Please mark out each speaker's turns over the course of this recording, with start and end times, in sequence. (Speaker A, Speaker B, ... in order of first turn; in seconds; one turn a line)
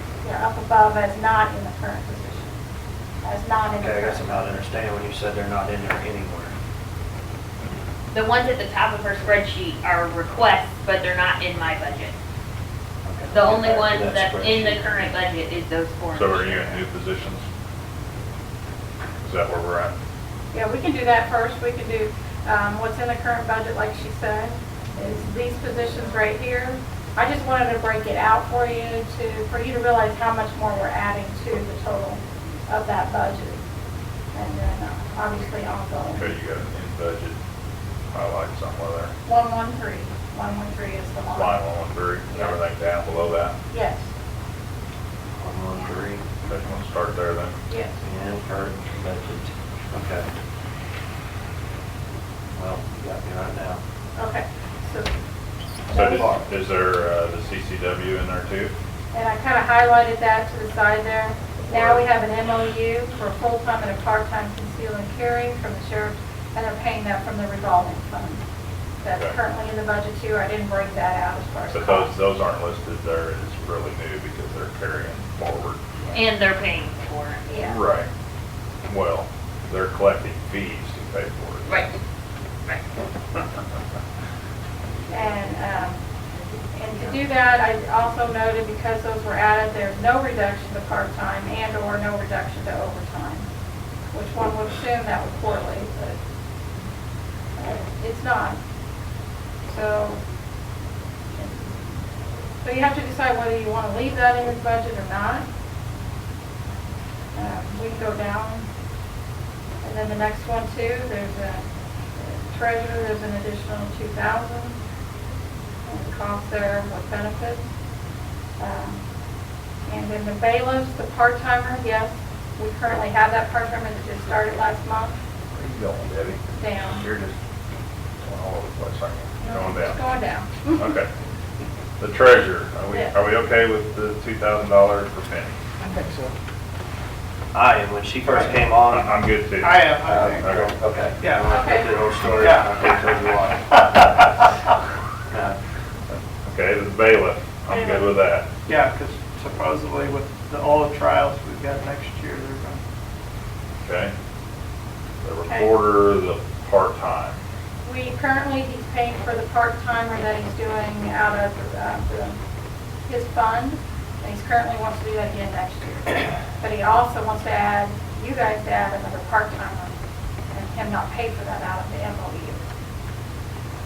Speaker A: 0.2-2.6
Speaker A: 3.2-4.4
Speaker B: 3.8-6.5
Speaker C: 8.1-12.1
Speaker B: 13.1-14.9
Speaker C: 13.3-16.8
Speaker D: 16.1-17.4
Speaker D: 19.2-20.0
Speaker A: 20.5-33.6
Speaker A: 34.3-36.3
Speaker D: 36.1-37.4
Speaker D: 38.1-39.1
Speaker A: 39.2-41.6
Speaker D: 41.3-43.6
Speaker A: 42.3-42.6
Speaker A: 43.7-44.1
Speaker B: 45.4-46.2
Speaker D: 46.4-47.6
Speaker A: 47.7-48.0
Speaker B: 48.0-50.3
Speaker B: 52.5-53.8
Speaker A: 54.2-55.1
Speaker A: 55.9-56.3
Speaker D: 55.9-58.7
Speaker A: 59.1-68.4
Speaker D: 61.6-62.0
Speaker A: 69.0-72.1
Speaker D: 71.7-75.8
Speaker C: 76.1-77.5
Speaker A: 77.5-77.8
Speaker D: 77.6-78.1
Speaker D: 78.9-81.7
Speaker C: 81.7-82.0
Speaker A: 85.1-86.0
Speaker A: 86.7-93.5
Speaker A: 94.1-96.2
Speaker A: 97.6-98.6
Speaker A: 99.7-100.2
Speaker A: 101.4-101.8
Speaker A: 102.6-105.5
Speaker A: 107.3-108.7
Speaker A: 109.8-111.7
Speaker A: 112.2-114.8
Speaker A: 115.9-117.6
Speaker A: 118.6-119.0
Speaker A: 119.9-125.2
Speaker D: 125.5-126.4
Speaker A: 126.5-127.1
Speaker D: 126.9-127.3
Speaker D: 128.2-130.0
Speaker A: 129.4-130.9
Speaker D: 130.8-131.1
Speaker D: 132.0-135.6
Speaker E: 135.8-136.3
Speaker B: 137.5-139.1
Speaker E: 138.3-138.6
Speaker D: 138.9-139.8
Speaker E: 139.6-140.6
Speaker B: 140.0-144.3
Speaker D: 140.4-140.7
Speaker E: 141.2-141.6
Speaker A: 141.5-141.9
Speaker E: 142.2-143.2
Speaker E: 143.7-144.0
Speaker B: 145.3-145.6
Speaker D: 146.4-148.5
Speaker A: 147.7-148.2
Speaker E: 148.7-152.8
Speaker D: 153.8-154.1
Speaker D: 155.2-157.4
Speaker A: 155.5-155.7
Speaker A: 157.8-162.4
Speaker A: 163.1-169.9
Speaker A: 170.5-172.6